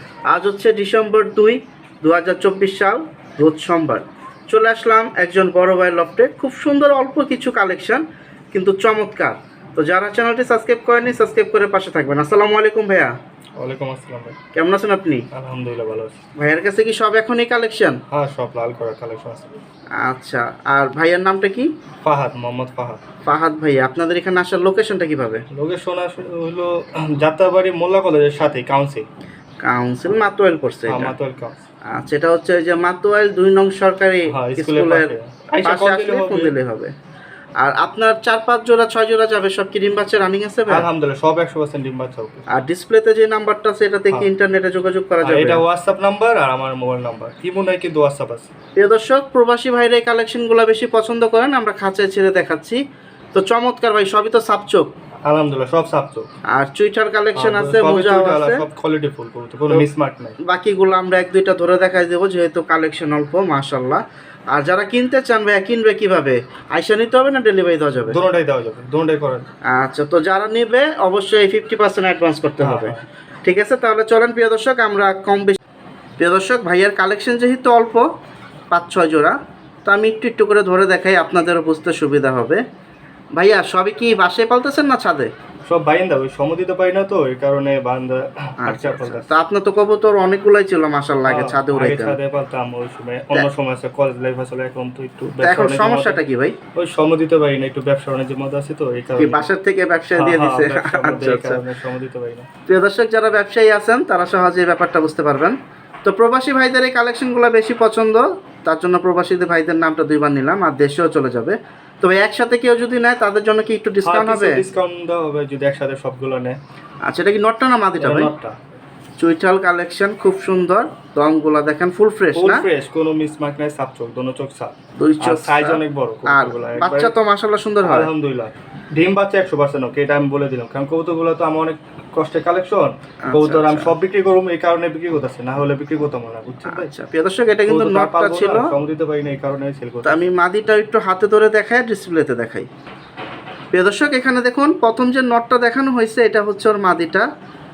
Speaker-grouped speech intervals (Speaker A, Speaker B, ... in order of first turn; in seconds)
Speaker A: 0.3-13.1, 14.5-15.2, 16.4-18.0, 20.0-21.7, 23.3-25.4, 29.6-31.1, 31.9-36.9, 37.6-40.9, 42.5-45.6, 48.8-52.8, 53.3-54.9, 56.6-58.6, 60.4-64.0, 64.5-68.2, 69.7-75.6, 76.2-78.1, 78.7-82.6, 83.4-85.3, 88.6-92.2, 95.4-96.5, 99.2-101.6, 102.7-114.6, 117.1-118.3, 119.2-122.7, 125.0-128.1, 133.2-133.9, 136.7-138.7, 140.1-142.7, 143.7-147.3
Speaker B: 13.6-14.4, 15.3-16.2, 18.1-19.5, 22.0-23.0, 25.5-29.1, 30.9-31.6, 34.3-36.5, 40.7-42.5, 45.2-48.5, 55.3-56.3, 57.4-60.4, 68.1-69.5, 72.6-73.0, 85.7-89.3, 91.3-96.2, 96.8-99.5, 100.1-102.5, 114.0-116.6, 118.0-118.6, 122.3-127.1, 127.8-136.9, 137.7-140.2